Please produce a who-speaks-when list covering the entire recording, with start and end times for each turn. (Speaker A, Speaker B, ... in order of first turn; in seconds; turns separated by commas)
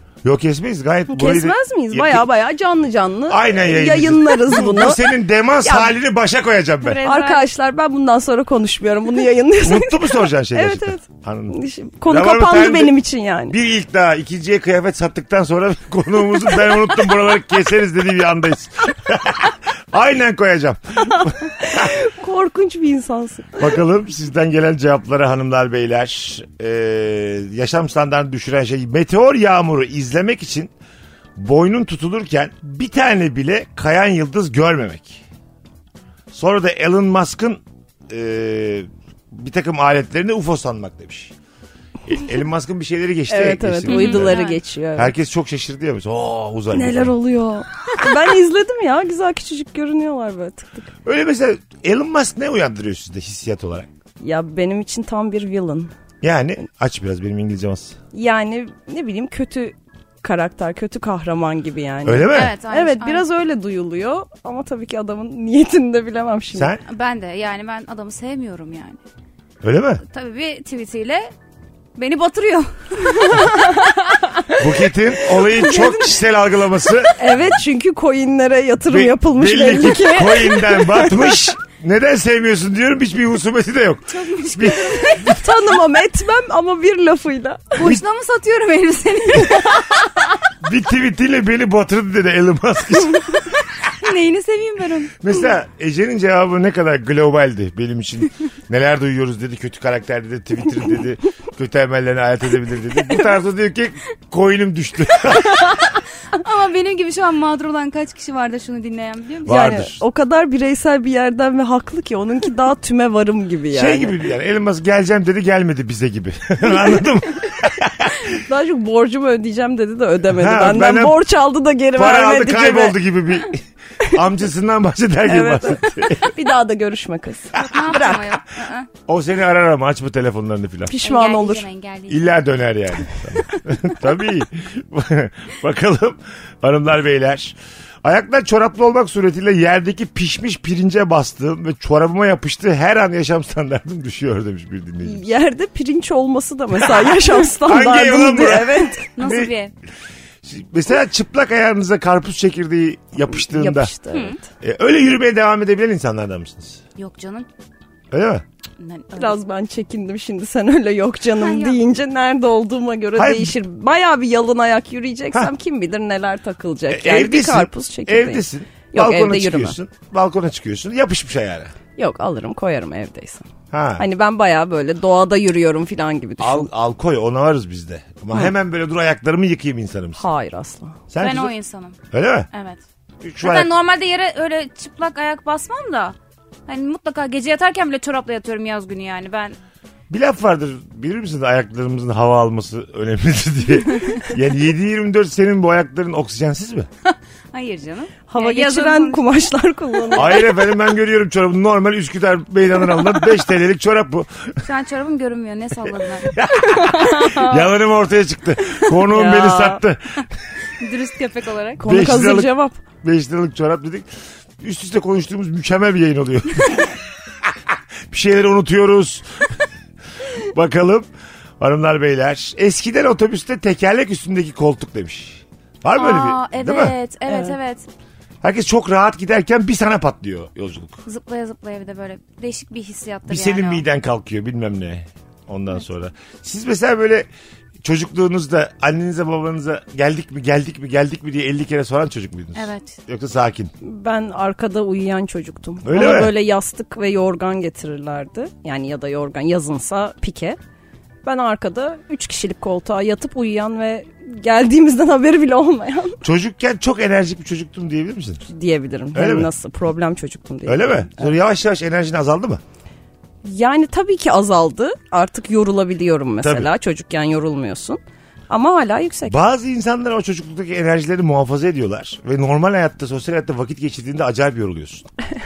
Speaker A: 0.2-2.2, Speaker B: 1.1-5.0, Speaker A: 3.3-7.0, Speaker B: 5.6-5.9, Speaker C: 6.8-7.5, Speaker B: 7.0-13.6, Speaker A: 9.6-13.0, Speaker A: 13.5-21.9, Speaker B: 21.6-23.7, Speaker A: 23.6-30.7, Speaker A: 31.4-35.2, Speaker A: 36.3-41.3, Speaker A: 42.1-44.4, Speaker B: 43.3-45.1, Speaker C: 43.9-44.6, Speaker A: 45.0-47.1, Speaker B: 46.7-50.9, Speaker A: 51.0-53.9, Speaker B: 54.2-55.9, Speaker A: 56.2-58.0, Speaker B: 58.1-66.8, Speaker A: 62.0-62.5, Speaker C: 62.3-63.3, Speaker A: 66.5-66.8, Speaker C: 66.8-69.0, Speaker A: 69.6-70.0, Speaker C: 70.0-71.3, Speaker C: 72.0-74.1, Speaker B: 73.4-73.7, Speaker A: 74.5-77.4, Speaker B: 75.4-76.0, Speaker B: 77.2-81.4, Speaker A: 78.9-85.6, Speaker C: 84.1-85.4, Speaker B: 85.3-87.9, Speaker C: 87.8-90.3, Speaker A: 90.6-93.4, Speaker C: 93.8-95.3, Speaker A: 95.2-105.8, Speaker C: 105.3-109.7, Speaker A: 109.5-110.0, Speaker B: 109.5-114.2, Speaker A: 113.7-118.3, Speaker B: 118.3-123.0, Speaker A: 120.3-121.2, Speaker A: 122.0-126.3, Speaker B: 125.3-128.4, Speaker C: 127.5-128.9, Speaker A: 129.1-131.0, Speaker B: 130.9-131.7, Speaker C: 131.0-132.3, Speaker A: 132.1-145.2, Speaker B: 145.0-149.1, Speaker A: 146.8-149.5, Speaker C: 149.2-149.7, Speaker A: 150.4-153.9, Speaker B: 153.4-154.4, Speaker A: 154.6-156.8, Speaker C: 157.0-157.5, Speaker A: 158.1-158.4, Speaker C: 158.8-159.4, Speaker B: 159.2-169.8, Speaker C: 161.4-161.8, Speaker A: 163.2-163.6, Speaker A: 166.9-171.7, Speaker B: 172.0-173.5, Speaker A: 173.7-174.1, Speaker B: 174.0-176.7, Speaker A: 176.4-180.2, Speaker B: 180.2-181.0, Speaker A: 181.1-181.5, Speaker C: 181.2-182.0, Speaker A: 182.1-182.5, Speaker C: 182.5-182.8, Speaker A: 183.2-183.7, Speaker C: 183.4-186.2, Speaker C: 186.7-189.6, Speaker A: 190.1-196.9, Speaker C: 197.1-199.3, Speaker B: 198.3-200.5, Speaker A: 200.1-204.6, Speaker C: 204.6-207.7, Speaker A: 206.3-210.2, Speaker B: 209.1-209.8, Speaker C: 210.8-211.8, Speaker B: 211.8-212.8, Speaker A: 211.8-212.5, Speaker A: 213.0-214.1, Speaker A: 214.6-216.9, Speaker A: 218.1-219.5, Speaker A: 220.3-221.1, Speaker A: 221.6-226.9, Speaker C: 225.9-227.9, Speaker B: 227.3-227.6, Speaker A: 228.4-231.0, Speaker C: 231.1-233.8, Speaker A: 233.3-237.3, Speaker A: 237.8-243.7, Speaker C: 242.6-243.0, Speaker B: 243.8-250.6, Speaker A: 245.8-246.4, Speaker B: 251.2-256.2, Speaker A: 256.2-258.4, Speaker B: 258.5-261.3, Speaker A: 259.1-259.5, Speaker A: 260.7-262.6, Speaker B: 263.4-269.4, Speaker A: 266.4-266.7, Speaker A: 269.3-275.1